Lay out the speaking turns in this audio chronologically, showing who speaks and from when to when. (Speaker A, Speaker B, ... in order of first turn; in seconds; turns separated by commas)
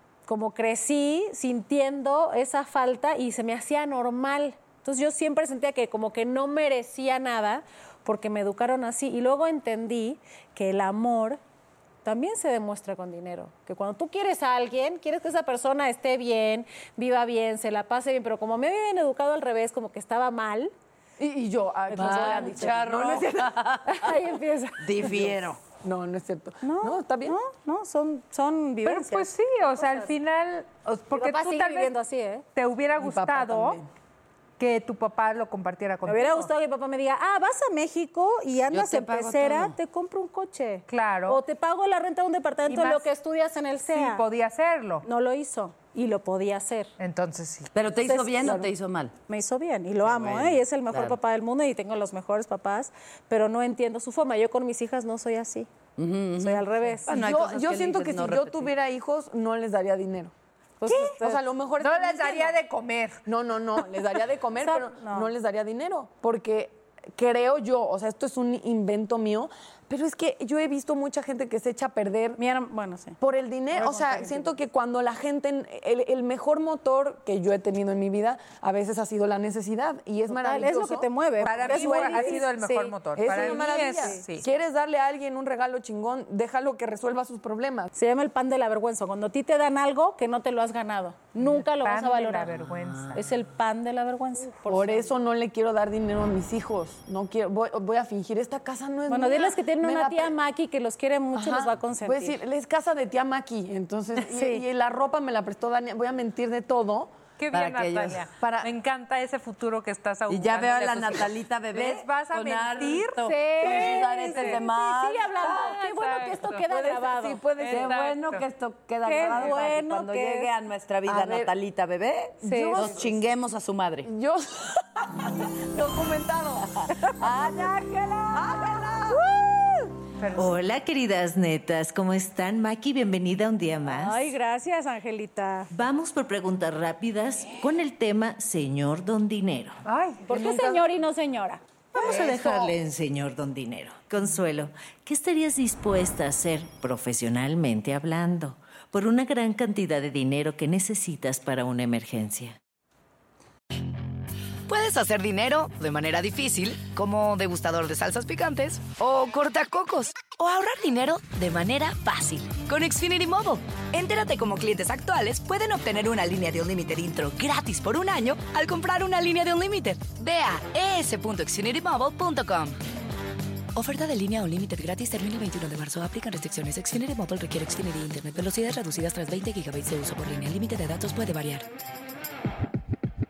Speaker A: 0.3-11.4, Speaker A: 12.0-20.7, Speaker B: 21.2-23.8, Speaker A: 21.9-23.2, Speaker C: 22.0-24.0, Speaker A: 23.9-25.2, Speaker C: 24.8-25.6, Speaker B: 25.0-27.4, Speaker A: 26.6-29.3, Speaker D: 28.8-32.0, Speaker A: 31.1-32.5, Speaker D: 32.6-33.8, Speaker B: 33.0-33.9, Speaker D: 34.6-36.5, Speaker A: 36.1-44.2, Speaker C: 38.7-39.8, Speaker D: 40.9-41.4, Speaker D: 42.7-43.1, Speaker D: 43.9-45.1, Speaker A: 45.0-46.9, Speaker D: 47.0-47.7, Speaker C: 47.7-49.1, Speaker A: 48.1-48.6, Speaker B: 48.4-48.7, Speaker A: 49.3-55.7, Speaker C: 50.0-51.2, Speaker C: 56.0-58.7, Speaker A: 56.4-57.1, Speaker B: 57.1-60.3, Speaker A: 60.8-61.4, Speaker B: 60.8-62.6, Speaker D: 61.8-63.2, Speaker B: 63.3-72.4, Speaker A: 64.6-65.3, Speaker A: 72.4-73.2, Speaker B: 73.2-87.9, Speaker A: 73.7-74.5, Speaker A: 80.3-84.6, Speaker D: 81.5-84.4, Speaker A: 88.0-92.5, Speaker D: 91.4-93.2, Speaker A: 93.2-95.1, Speaker B: 94.7-100.4, Speaker A: 99.1-102.4, Speaker B: 101.3-107.1, Speaker A: 104.2-104.7, Speaker D: 107.4-114.5, Speaker C: 107.5-108.3, Speaker B: 108.4-108.7, Speaker C: 110.3-115.7, Speaker A: 113.4-117.4, Speaker D: 115.6-116.7, Speaker B: 116.7-118.0, Speaker D: 117.6-118.5, Speaker C: 117.7-124.1, Speaker A: 119.0-120.5, Speaker B: 121.0-121.5, Speaker B: 122.4-123.3, Speaker D: 122.5-123.0, Speaker B: 124.0-126.7, Speaker C: 126.8-127.7, Speaker A: 127.0-129.9, Speaker C: 128.3-129.2, Speaker D: 130.2-130.6, Speaker E: 130.3-134.3, Speaker A: 133.9-135.7, Speaker E: 135.7-139.8, Speaker D: 139.8-140.2, Speaker B: 140.3-140.9, Speaker A: 140.3-141.6, Speaker E: 142.0-152.6, Speaker D: 142.0-142.4, Speaker B: 142.0-142.7, Speaker F: 154.7-172.8, Speaker F: 173.8-181.7